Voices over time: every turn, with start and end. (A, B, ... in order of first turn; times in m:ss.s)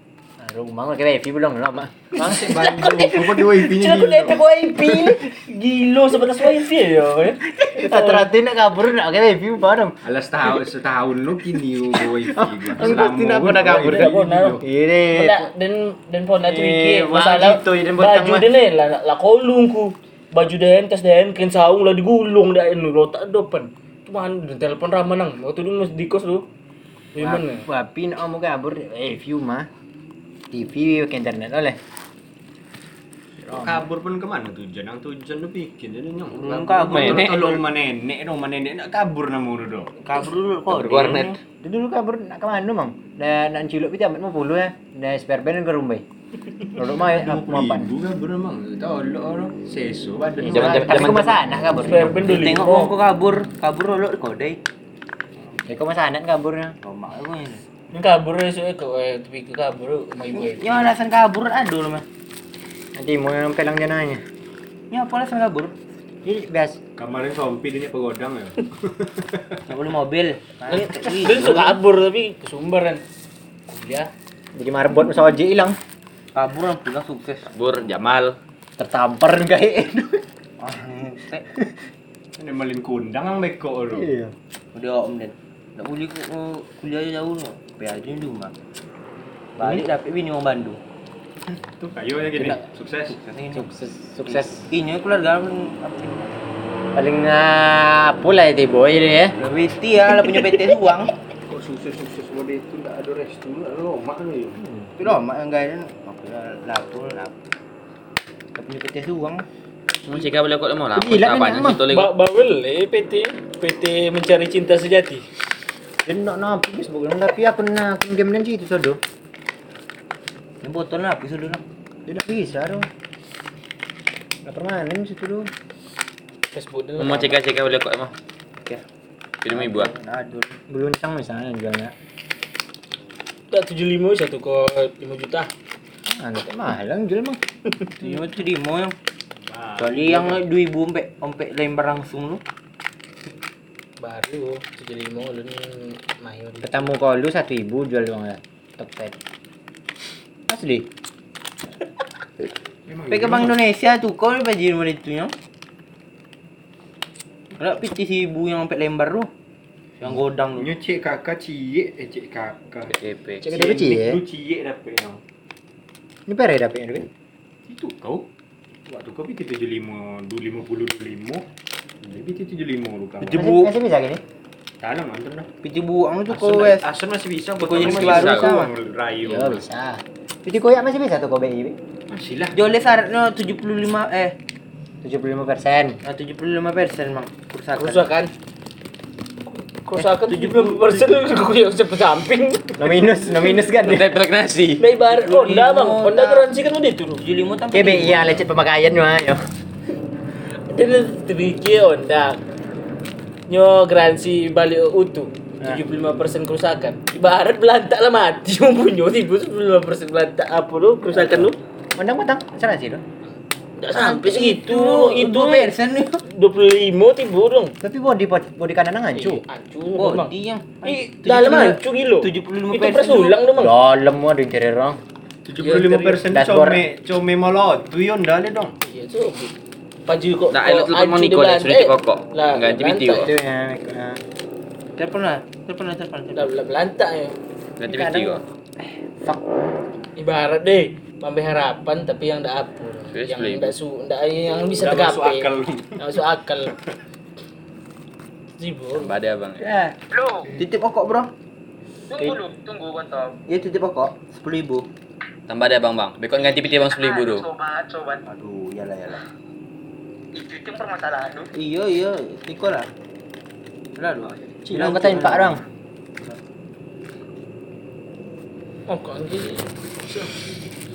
0:00.4-0:02.6 A
0:02.2-0:04.4 B
0:02.2-0:08.3 C
0:07.6-0:10.0 A
0:10.0-0:14.6 B
0:12.1-0:14.1 A
0:13.6-0:14.6 C
0:14.6-0:15.5 A
0:15.1-0:26.4 C
0:16.4-0:18.5 A
0:27.1-0:27.6 C
0:27.2-0:29.7 A
0:30.5-0:31.8 A
0:33.4-0:33.8 A
0:33.5-0:39.9 B
0:36.3-0:37.6 D
0:37.0-0:37.2 E
0:40.0-0:41.4 D
0:40.7-0:41.4 E
0:41.6-0:46.0 A
0:46.7-0:47.9 A
0:46.9-0:51.1 B
0:50.4-0:52.2 A
0:50.4-0:51.4 E
0:51.0-0:52.9 C
0:52.2-0:54.6 D
0:55.6-0:56.8 A
0:56.8-0:57.6 D
0:57.9-1:00.9 C
1:00.3-1:02.0 D
1:03.0-1:04.2 A
1:04.9-1:05.7 D
1:06.2-1:06.8 A
1:07.0-1:09.6 B
1:09.7-1:11.8 D
1:10.7-1:13.0 C
1:13.7-1:14.1 C
1:14.5-1:15.8 A
1:16.3-1:17.5 D
1:17.5-1:18.4 E
1:18.8-1:20.2 A
1:20.6-1:21.5 D
1:22.4-1:24.1 B
1:23.9-1:24.3 A
1:24.7-1:28.5 D
1:29.6-1:30.8 D
1:29.6-1:29.8 A
1:31.8-1:33.2 B
1:33.1-1:33.7 D
1:33.5-1:34.7 A
1:34.2-1:36.3 D
1:36.9-1:39.4 A
1:39.4-1:41.1 D
1:41.5-1:44.6 B
1:44.6-1:44.9 A
1:45.0-1:47.3 D
1:48.6-1:49.4 D
1:50.1-1:52.1 E
1:50.9-1:51.8 A
1:51.9-1:55.2 C
1:56.0-1:59.0 A
2:00.6-2:01.6 D
2:02.1-2:02.9 A
2:04.4-2:05.5 A
2:06.5-2:07.4 C
2:07.0-2:08.1 E
2:09.4-2:09.9 E
2:09.5-2:10.6 D
2:10.7-2:11.9 A
2:13.5-2:15.5 C
2:16.1-2:17.4 A
2:18.0-2:18.9 D
2:19.5-2:20.4 B
2:19.8-2:22.4 D
2:24.0-2:26.9 C
2:26.6-2:29.2 A
2:30.5-2:30.9 A
2:32.9-2:33.6 B
2:33.1-2:35.3 D
2:37.6-2:39.3 D
2:40.0-2:40.7 D
2:40.6-2:42.9 B
2:42.9-2:43.4 E
2:43.4-2:44.2 A
2:43.5-2:45.2 B
2:46.3-2:47.1 A
2:47.6-2:48.3 B
2:48.9-2:51.4 B
2:52.0-2:53.6 B
2:53.2-2:54.2 A
2:53.3-2:53.6 D
2:54.8-2:55.5 B
2:55.6-2:56.9 D
2:56.3-2:59.6 B
2:57.6-2:58.7 D
2:57.7-2:58.6 E
2:59.2-3:01.8 A
3:02.1-3:02.6 B
3:02.5-3:04.4 D
3:05.0-3:06.0 A
3:06.0-3:08.1 D
3:07.7-3:08.3 C
3:09.8-3:12.8 C
3:10.5-3:10.8 D
3:12.8-3:14.2 A
3:13.7-3:14.8 E
3:14.8-3:17.2 C
3:15.1-3:16.5 D
3:17.2-3:18.4 D
3:17.7-3:19.4 A
3:20.7-3:22.4 C
3:23.5-3:31.6 C
3:31.1-3:33.0 A
3:33.8-3:37.7 C
3:33.9-3:36.2 D
3:37.8-3:39.4 A
3:39.1-3:40.3 C
3:40.0-3:43.4 D
3:40.8-3:43.7 C
3:43.6-3:45.0 A
3:45.4-3:48.7 B
3:45.6-3:46.2 C
3:46.3-3:46.8 A
3:48.8-3:49.5 C
3:50.0-3:53.3 C
3:50.5-3:53.3 E
3:53.1-3:54.2 A
3:55.0-3:56.5 D
3:56.3-3:57.4 C
3:57.8-3:58.4 E
3:57.8-3:58.4 A
3:59.2-3:59.6 A
4:00.2-4:06.7 C
4:03.1-4:03.7 E
4:04.8-4:06.1 B
4:08.6-4:09.2 C
4:08.9-4:09.7 E
4:09.6-4:09.9 A
4:10.5-4:11.3 D
4:12.2-4:13.4 E
4:13.5-4:14.9 D
4:15.5-4:17.5 E
4:18.2-4:19.2 D
4:21.0-4:21.5 E
4:21.5-4:22.9 D
4:24.0-4:25.6 D
4:24.6-4:25.6 A
4:28.9-4:30.3 C